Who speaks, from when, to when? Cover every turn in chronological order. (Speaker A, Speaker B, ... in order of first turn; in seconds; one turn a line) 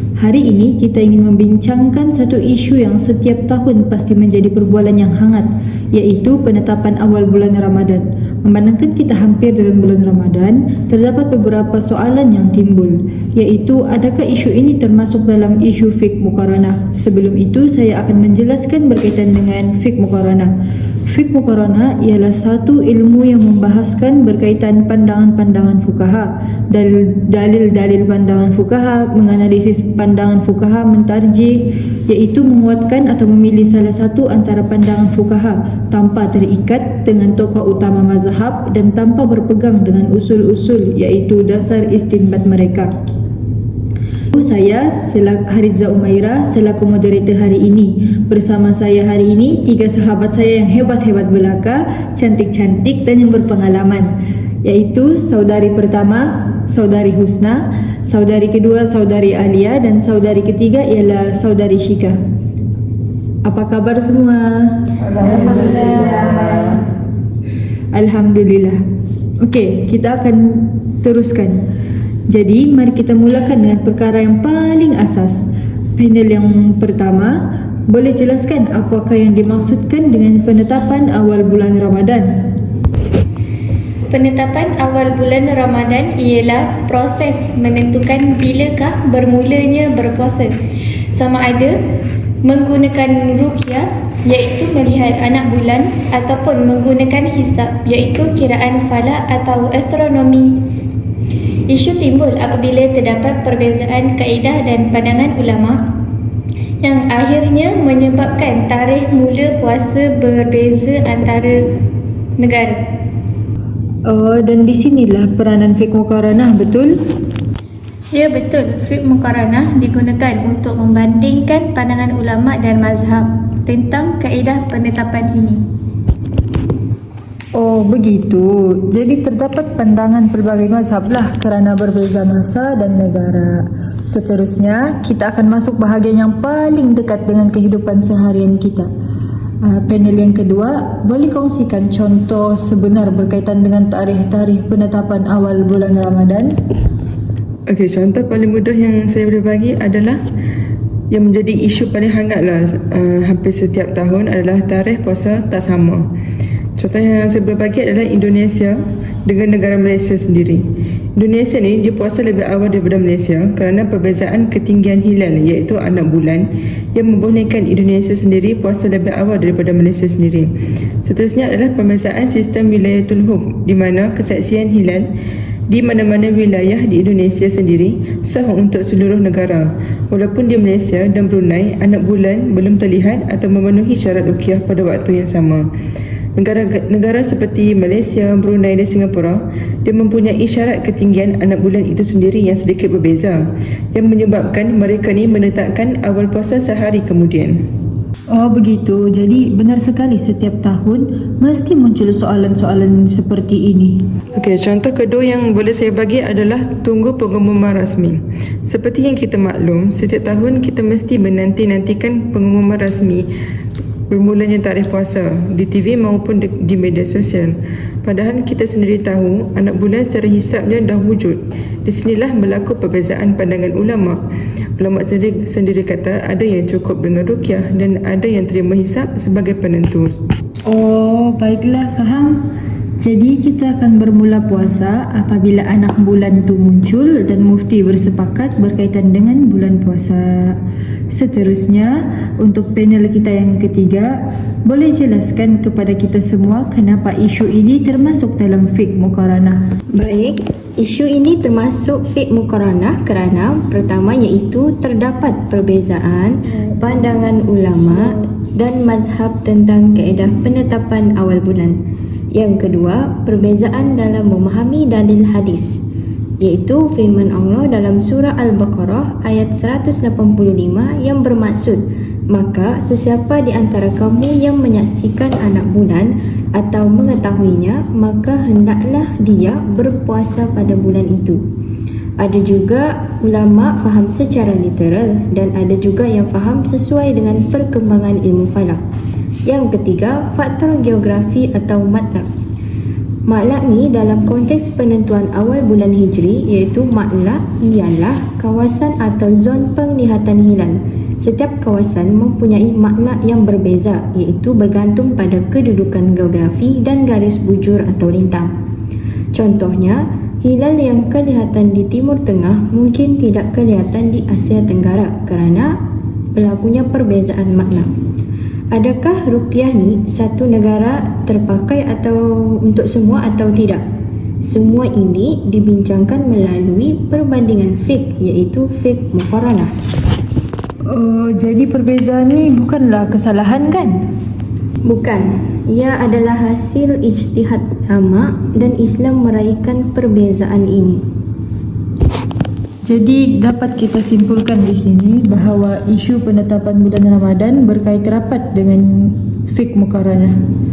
Speaker A: 0.2-20.5
Speaker A: 21.1-42.9
Speaker A: 44.3-54.1
Speaker A: 54.6-62.1
Speaker A: 63.5-66.7
Speaker B: 65.0-66.8
Speaker A: 67.9-68.8
Speaker A: 69.4-71.5
Speaker A: 72.3-75.4
Speaker A: 76.0-77.3
Speaker A: 77.9-82.3
Speaker C: 84.2-90.5
Speaker C: 91.2-91.7
Speaker C: 92.5-100.5
Speaker C: 101.7-105.8
Speaker C: 106.9-111.5
Speaker C: 112.4-112.7
Speaker A: 114.1-116.9
Speaker C: 118.2-125.6
Speaker A: 127.5-138.9
Speaker A: 139.6-146.5
Speaker B: 147.7-150.2
Speaker B: 151.1-156.0
Speaker B: 156.8-158.7
Speaker B: 159.2-160.6
Speaker B: 161.2-170.5
Speaker B: 171.0-175.1
Speaker B: 175.7-185.6
Speaker B: 186.4-193.4
Speaker B: 193.9-197.5
Speaker A: 198.3-204.0
Speaker B: 204.3-213.2
Speaker B: 214.1-217.5
Speaker B: 218.0-224.2
Speaker B: 224.8-230.1
Speaker A: 230.7-232.4
Speaker A: 233.0-240.5
Speaker A: 241.1-244.1
Speaker A: 244.7-249.6
Speaker D: 250.0-261.8
Speaker D: 262.3-265.8
Speaker D: 266.4-281.4
Speaker D: 282.2-288.8
Speaker D: 289.4-292.3
Speaker D: 293.3-308.5
Speaker D: 309.3-315.7
Speaker D: 316.4-317.9
Speaker D: 318.7-323.8
Speaker D: 324.4-329.7
Speaker A: 330.9-333.9
Speaker D: 334.9-341.0
Speaker A: 342.8-350.3